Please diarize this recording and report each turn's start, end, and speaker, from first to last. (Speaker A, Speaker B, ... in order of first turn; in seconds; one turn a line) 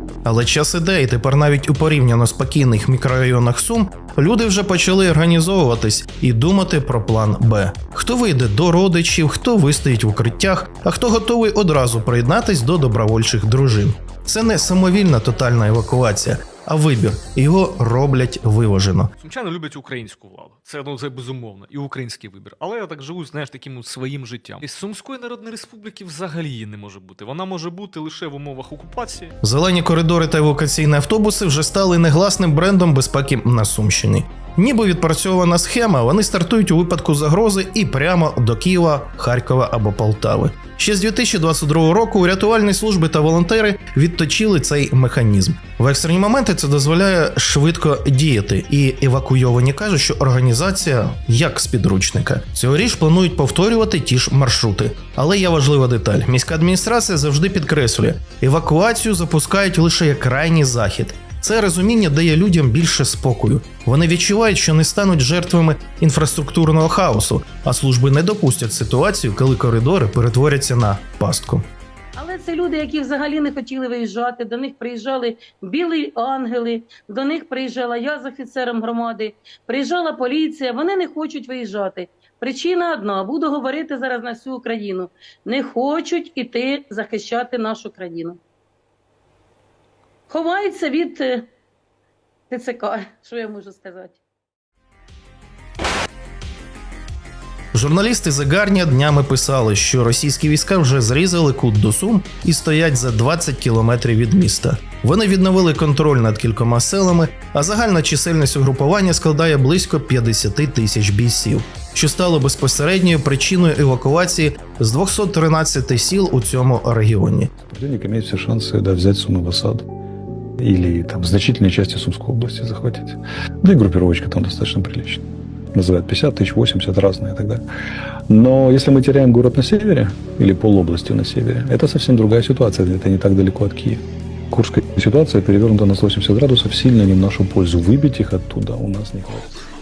Speaker A: 0.2-19.1
Speaker B: 19.2-29.3
Speaker A: 29.4-71.7
Speaker C: 72.1-88.4
Speaker C: 90.3-91.4
Speaker C: 92.5-94.2
Speaker A: 97.7-117.5
Speaker D: 117.7-119.9
Speaker D: 120.6-127.6
Speaker D: 128.3-139.6